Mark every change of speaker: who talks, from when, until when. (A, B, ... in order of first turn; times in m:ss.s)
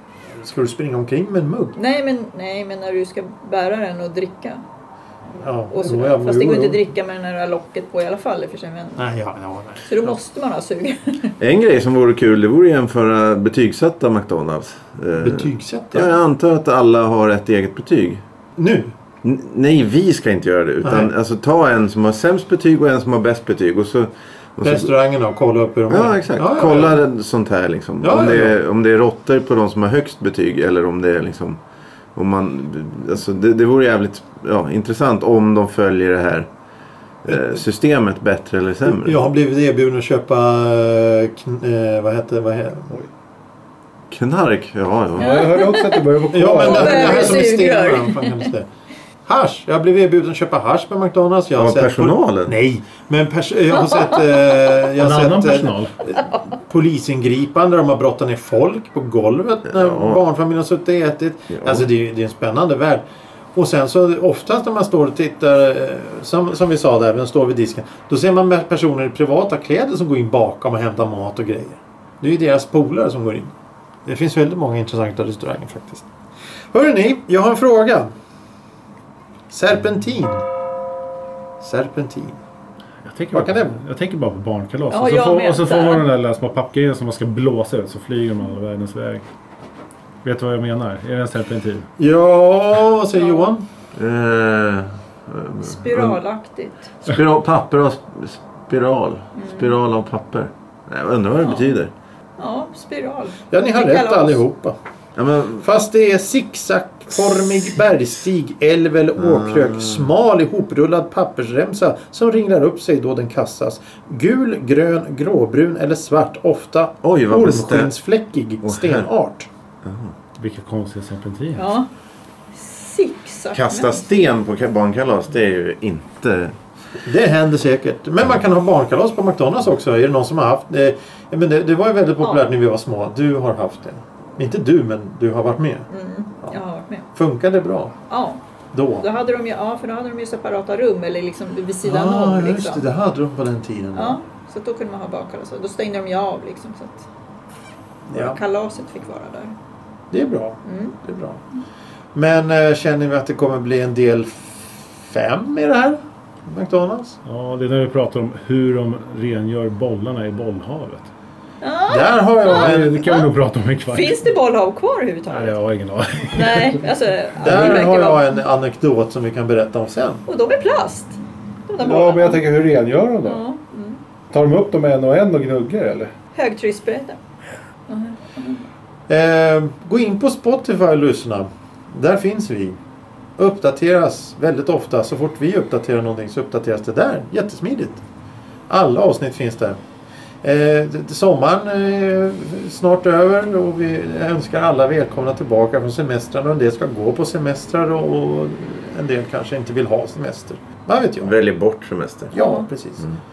0:00.3-0:01.8 A
0:01.8-0:04.6 B
0:05.4-0:06.8 A
0:05.7-0:09.0 B
0:09.0-0:10.1 A
0:09.8-0:11.3 B
0:11.4-0:18.2 C
0:15.2-0:16.1 A
0:18.6-0:18.9 A
0:19.2-0:24.9 C
0:20.8-0:21.1 A
0:24.6-0:27.0 A
0:25.9-0:31.6 C
0:28.0-0:28.6 A
0:32.1-0:36.5 C
0:37.2-0:39.2 C
0:38.8-0:43.0 A
0:44.1-0:45.5 C
0:45.2-0:47.4 D
0:45.2-0:48.5 B
0:46.3-0:48.7 A
0:49.2-1:13.5 A
0:51.6-0:52.6 C
0:55.0-0:56.0 D
0:59.7-1:00.2 C
1:01.5-1:01.9 C
1:14.0-1:16.0 A
1:16.7-1:18.1 A
1:19.5-1:20.4 A
1:21.6-1:22.4 A
1:23.0-1:29.2 D
1:23.3-1:23.8 A
1:24.9-1:26.1 B
1:30.2-1:31.9 D
1:32.0-1:33.6 A
1:33.1-1:33.5 B
1:33.9-1:36.2 C
1:35.6-1:36.8 B
1:37.0-1:41.9 C
1:39.4-1:39.8 B
1:41.4-1:41.7 B
1:42.4-1:44.4 B
1:43.5-1:44.7 A
1:45.2-1:45.6 C
1:45.6-1:59.5 A
1:49.2-1:50.1 C
1:57.0-1:57.9 C
1:58.6-1:59.1 C
1:59.8-2:00.1 C
2:00.4-2:01.7 D
2:01.6-2:01.9 B
2:02.5-2:04.3 B
2:03.5-2:06.6 C
2:07.0-2:15.9 A
2:15.9-2:17.0 B
2:17.1-2:17.9 A
2:18.1-2:18.4 B
2:18.7-2:19.0 A
2:19.0-2:22.8 B
2:21.8-2:24.2 A
2:23.9-2:27.1 B
2:28.1-2:28.4 A
2:28.1-2:29.5 B
2:30.1-2:31.4 A
2:30.6-2:31.0 B
2:32.1-2:37.2 A
2:37.2-2:41.1 D
2:41.6-2:43.3 B
2:41.9-2:43.0 A
2:42.5-2:44.2 D
2:43.9-2:45.6 B
2:45.3-2:46.8 D
2:46.3-2:48.4 B
2:47.4-2:50.2 A
2:47.4-2:47.9 D
2:50.3-2:52.4 B
2:51.8-2:53.4 D
2:53.2-2:54.0 B
2:54.3-2:56.1 D
2:56.3-2:57.2 B
2:57.9-2:58.6 B
2:59.1-3:02.8 A
3:03.4-3:08.0 A
3:08.7-3:09.8 A
3:10.4-3:21.3 A
3:21.2-3:22.3 C
3:22.3-3:23.1 A
3:22.3-3:22.7 B